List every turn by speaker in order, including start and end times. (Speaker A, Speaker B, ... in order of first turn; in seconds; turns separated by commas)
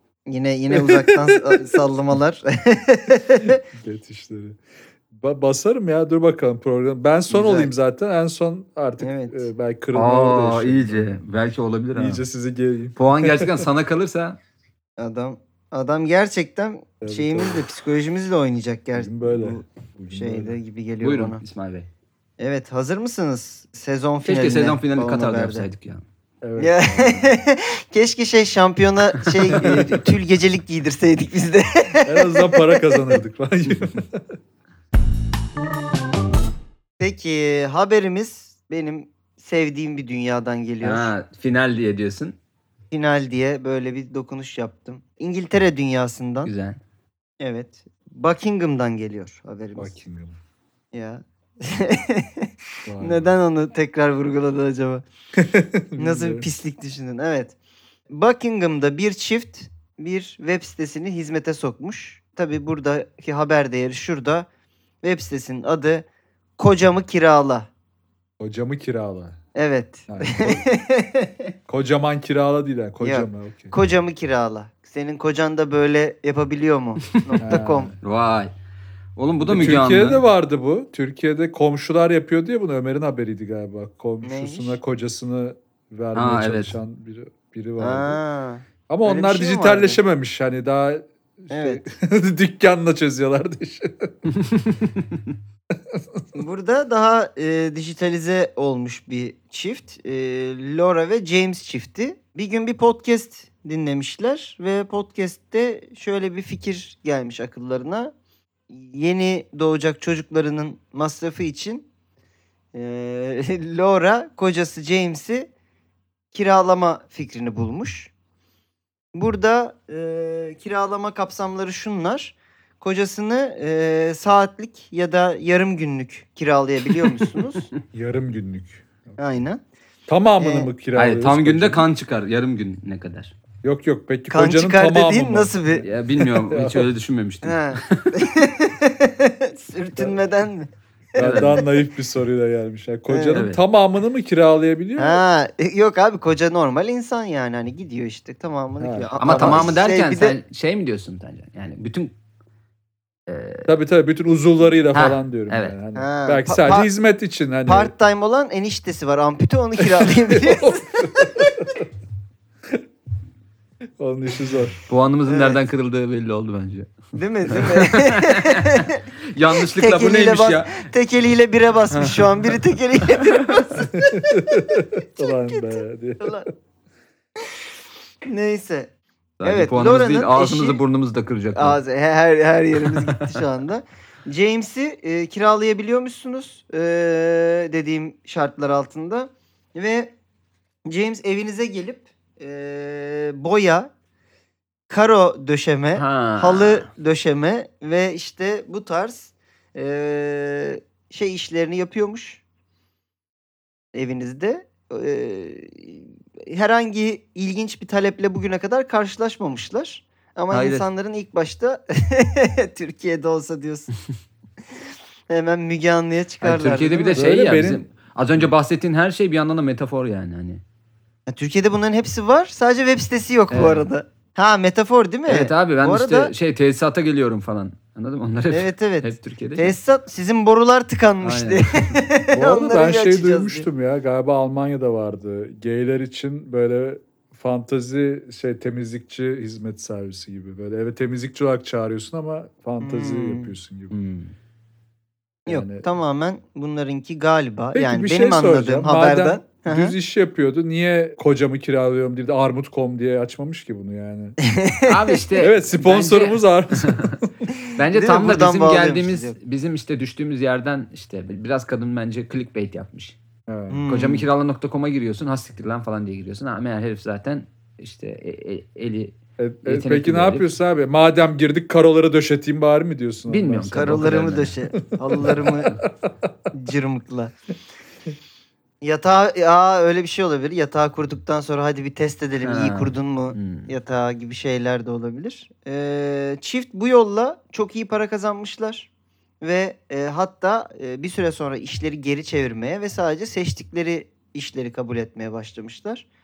Speaker A: 0.3-3.6, Speaker B: 0.7-1.8, Speaker B: 3.6-4.6, Speaker B: 5.1-11.2, Speaker A: 7.3-7.7, Speaker A: 9.0-9.5, Speaker C: 9.9-12.2, Speaker B: 12.0-13.6, Speaker C: 13.0-14.4, Speaker A: 15.0-21.4, Speaker B: 17.0-17.7, Speaker B: 19.0-20.6, Speaker C: 21.0-21.9, Speaker A: 22.4-25.7, Speaker C: 24.2-26.0, Speaker B: 26.4-27.3, Speaker A: 26.6-33.0, Speaker B: 29.6-29.9, Speaker B: 32.1-34.3, Speaker A: 37.0-41.1, Speaker C: 40.8-42.4, Speaker A: 42.9-46.5, Speaker C: 46.5-46.8, Speaker A: 47.4-50.0, Speaker B: 49.8-50.4, Speaker A: 50.9-55.0, Speaker B: 52.9-53.3, Speaker B: 55.4-56.5, Speaker A: 56.0-57.5, Speaker A: 58.1-64.5, Speaker A: 65.0-66.1, Speaker A: 66.6-67.7, Speaker B: 68.4-69.4, Speaker A: 69.5-71.5, Speaker B: 70.1-70.7, Speaker B: 71.7-73.7, Speaker A: 73.0-77.9, Speaker B: 77.4-78.0, Speaker C: 78.0-78.5, Speaker C: 79.2-80.2, Speaker B: 79.4-88.2, Speaker A: 84.2-84.8, Speaker C: 86.2-86.8, Speaker A: 87.8-90.0, Speaker B: 88.9-94.1, Speaker A: 91.5-91.8, Speaker C: 94.3-95.3, Speaker B: 95.8-96.2, Speaker A: 96.3-108.1, Speaker A: 108.7-111.9, Speaker A: 112.7-115.5, Speaker A: 116.3-118.1, Speaker A: 119.1-127.7, Speaker B: 127.9-129.2, Speaker A: 129.2-129.6, Speaker B: 130.1-131.8, Speaker A: 130.4-130.7, Speaker C: 130.9-133.3, Speaker B: 133.6-136.9, Speaker A: 134.3-135.9, Speaker C: 135.8-138.2, Speaker A: 137.4-141.6, Speaker C: 141.2-141.6, Speaker B: 141.2-145.2, Speaker A: 143.1-143.4, Speaker C: 143.3-143.6, Speaker A: 145.0-150.4, Speaker B: 148.8-149.7, Speaker C: 149.2-152.1, Speaker C: 153.3-153.7, Speaker B: 153.7-157.9, Speaker C: 154.9-155.8, Speaker A: 155.9-156.9, Speaker A: 157.7-161.8, Speaker B: 159.9-161.8, Speaker B: 164.0-164.8, Speaker C: 164.9-167.0, Speaker A: 165.3-165.6, Speaker A: 167.2-176.5, Speaker C: 167.5-170.9, Speaker C: 171.9-172.6, Speaker C: 173.1-173.6, Speaker B: 173.9-176.5, Speaker A: 178.3-178.9, Speaker C: 179.4-181.8, Speaker A: 179.4-180.8, Speaker A: 181.6-190.1, Speaker C: 182.8-183.4, Speaker A: 190.9-193.9, Speaker A: 194.9-202.4, Speaker C: 196.0-196.9, Speaker A: 203.9-213.9, Speaker C: 210.5-210.9, Speaker A: 215.3-217.2, Speaker C: 216.4-220.6, Speaker B: 217.1-218.5, Speaker A: 221.3-226.3, Speaker C: 223.5-223.9, Speaker C: 225.3-229.8, Speaker A: 228.5-233.7, Speaker C: 231.2-232.0, Speaker B: 232.3-243.9, Speaker A: 242.8-243.5, Speaker C: 243.9-244.3, Speaker B: 245.5-245.8, Speaker A: 245.5-249.9, Speaker B: 247.7-254.4, Speaker A: 254.4-255.2, Speaker C: 254.9-257.2, Speaker B: 255.4-257.3, Speaker C: 257.8-263.2, Speaker A: 257.9-259.4, Speaker B: 263.5-263.8, Speaker A: 263.7-264.3, Speaker C: 263.9-270.5, Speaker B: 269.4-274.1, Speaker C: 273.3-274.6, Speaker A: 273.7-275.8, Speaker B: 275.0-276.1, Speaker A: 276.5-277.3, Speaker A: 278.8-288.9, Speaker C: 282.4-283.7, Speaker A: 289.4-296.1